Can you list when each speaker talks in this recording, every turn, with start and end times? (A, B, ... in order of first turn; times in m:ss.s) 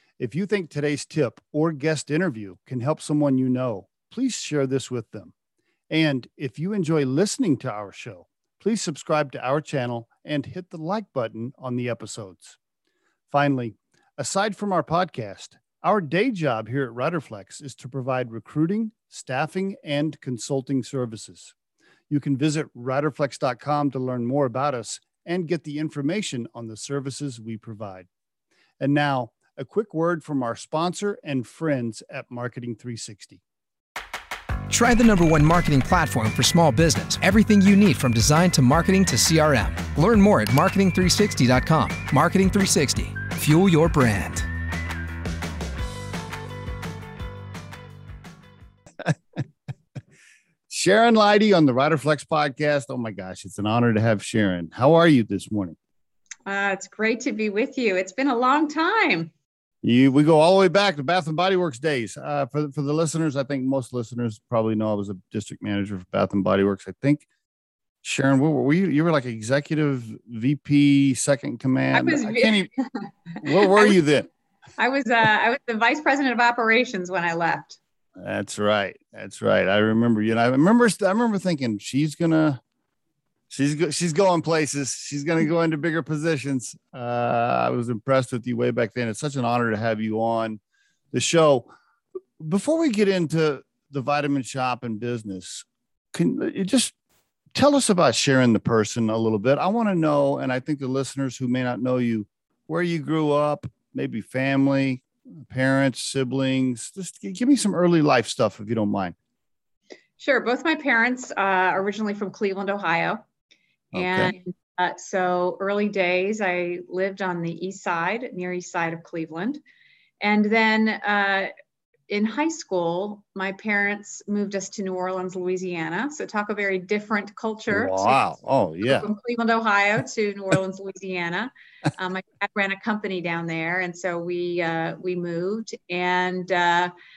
0:00.2-0:05.3 A
0:05.9-0:12.6 A
0:13.3-0:21.5 A
0:22.1-0:28.1 A
0:28.8-0:33.4 A
0:34.7-0:44.5 B
0:50.7-0:55.8 A
0:56.5-0:59.3 C
0:59.8-1:07.2 A
1:08.0-1:12.7 A
1:11.9-1:12.9 C
1:13.4-1:14.3 A
1:13.5-1:14.0 C
1:14.8-1:17.8 C
1:18.2-1:22.6 A
1:23.5-1:30.6 A
1:31.1-1:31.7 A
1:32.4-1:36.9 A
1:37.6-1:49.2 A
1:50.2-1:53.2 C
1:53.9-1:59.6 C
1:54.0-1:54.3 A
2:00.2-2:01.5 C
2:02.1-2:16.9 C
2:07.7-2:09.1 A